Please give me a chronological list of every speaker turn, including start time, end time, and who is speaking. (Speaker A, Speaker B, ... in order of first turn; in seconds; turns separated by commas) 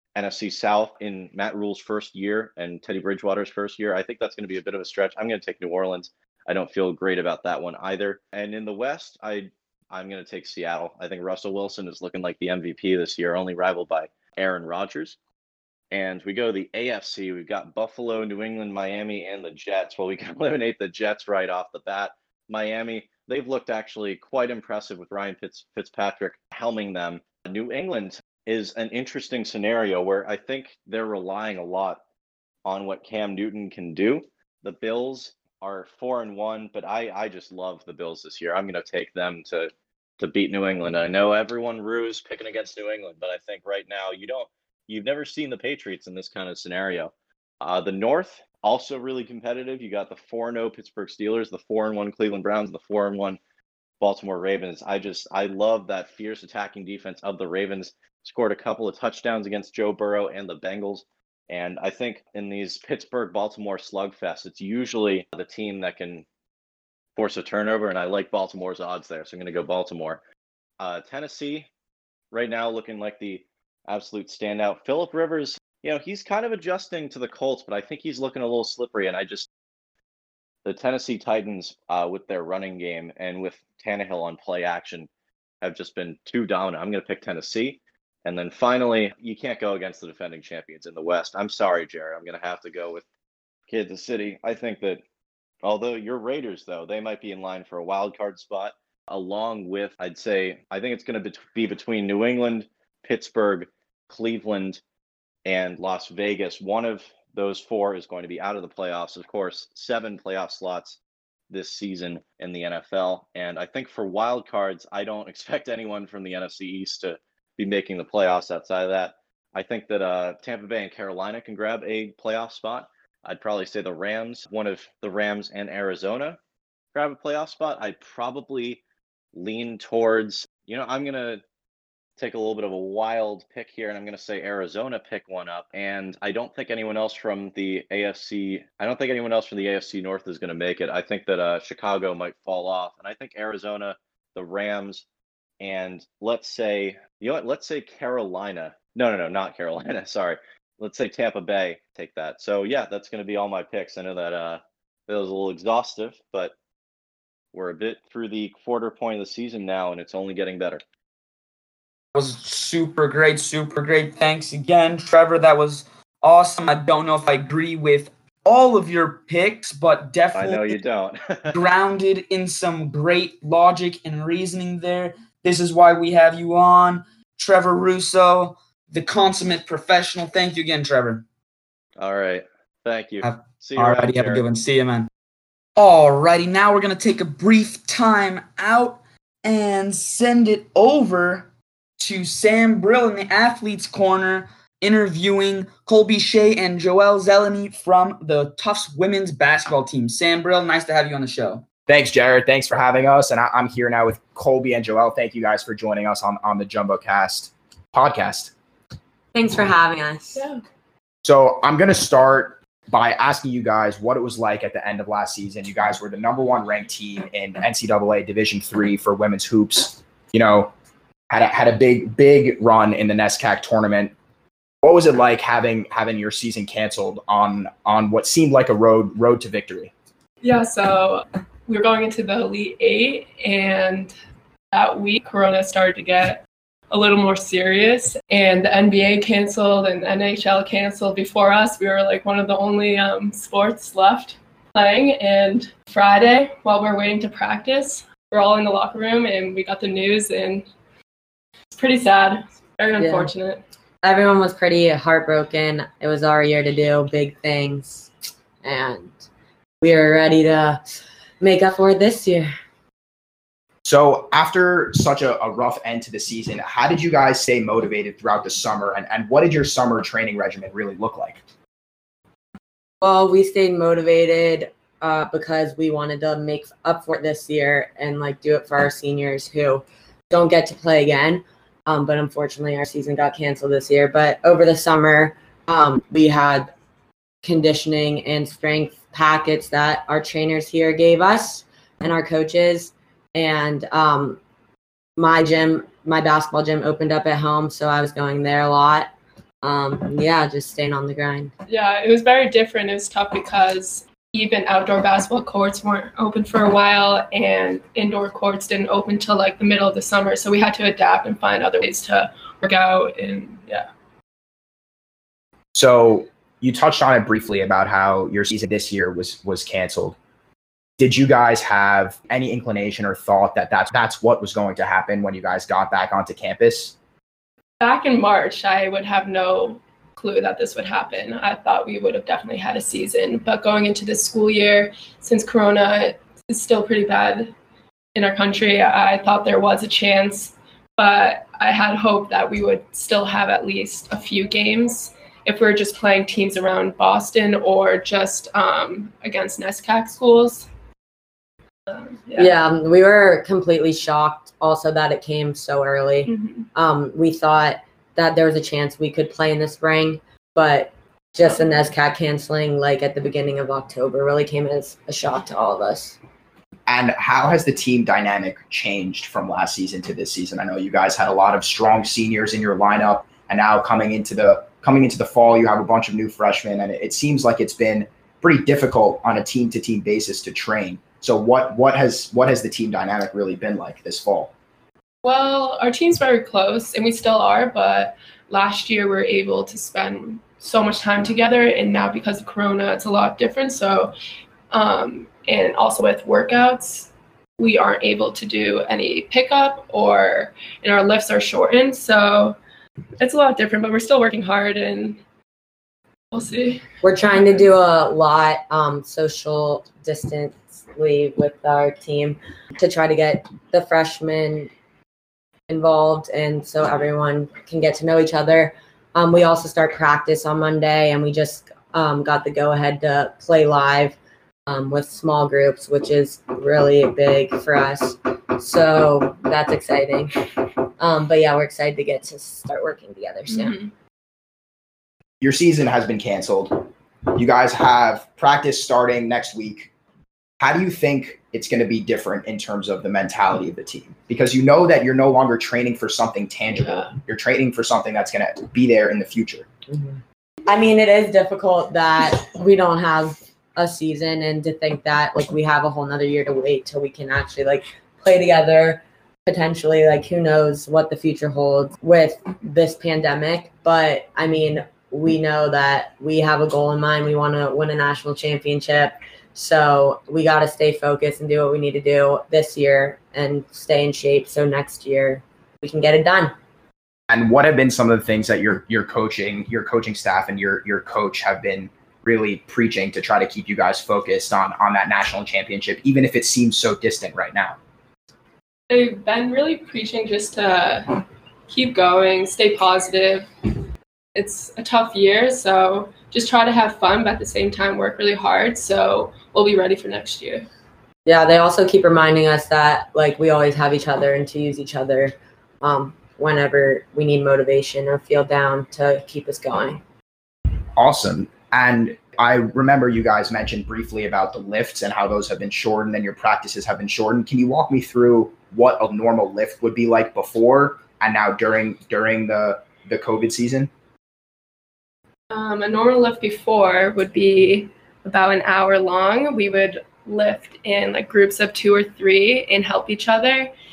Speaker A: 0.1-15.2, Speaker A: 15.9-32.0, Speaker A: 32.6-53.4, Speaker A: 54.0-66.3, Speaker A: 67.2-70.2, Speaker A: 70.8-71.7, Speaker A: 72.3-79.5, Speaker A: 80.7-85.1, Speaker A: 85.6-93.0, Speaker A: 93.7-95.0, Speaker A: 95.6-104.8, Speaker A: 105.5-111.0, Speaker A: 111.5-126.4, Speaker A: 126.9-128.8, Speaker A: 129.3-131.4, Speaker A: 132.2-145.1, Speaker A: 145.6-156.5, Speaker A: 157.5-160.8, Speaker B: 162.1-170.8, Speaker A: 170.3-171.6, Speaker B: 171.5-181.2, Speaker A: 182.0-184.4, Speaker B: 183.2-185.1, Speaker B: 185.8-201.6, Speaker C: 201.9-208.5, Speaker D: 209.3-210.5, Speaker C: 211.2-220.7, Speaker C: 221.3-224.1, Speaker C: 224.8-229.9, Speaker E: 230.4-234.1, Speaker E: 234.7-250.7, Speaker E: 251.7-253.6, Speaker D: 253.0-253.3, Speaker D: 254.0-258.1, Speaker D: 258.6-259.2, Speaker D: 259.8-260.8, Speaker D: 261.4-262.5, Speaker C: 263.8-271.4, Speaker D: 273.0-286.7, Speaker D: 287.4-294.4, Speaker D: 295.2-299.1, Speaker D: 299.6-301.5, Speaker E: 301.7-313.9, Speaker C: 315.7-320.2, Speaker C: 321.0-327.0, Speaker E: 327.8-337.5, Speaker E: 338.1-350.7, Speaker E: 351.9-352.5, Speaker D: 352.4-366.2, Speaker E: 356.3-356.7, Speaker C: 366.9-384.5, Speaker E: 385.2-394.1, Speaker E: 394.7-402.6, Speaker E: 403.2-405.2, Speaker E: 406.3-406.9, Speaker D: 407.0-414.7, Speaker D: 415.7-433.8, Speaker E: 433.5-433.9, Speaker C: 435.4-439.9, Speaker C: 440.6-449.7, Speaker E: 446.8-447.1, Speaker D: 449.9-476.5, Speaker C: 477.3-487.8, Speaker E: 488.9-493.8, Speaker E: 494.3-500.7, Speaker D: 501.2-510.0, Speaker C: 511.0-523.9, Speaker E: 525.5-533.7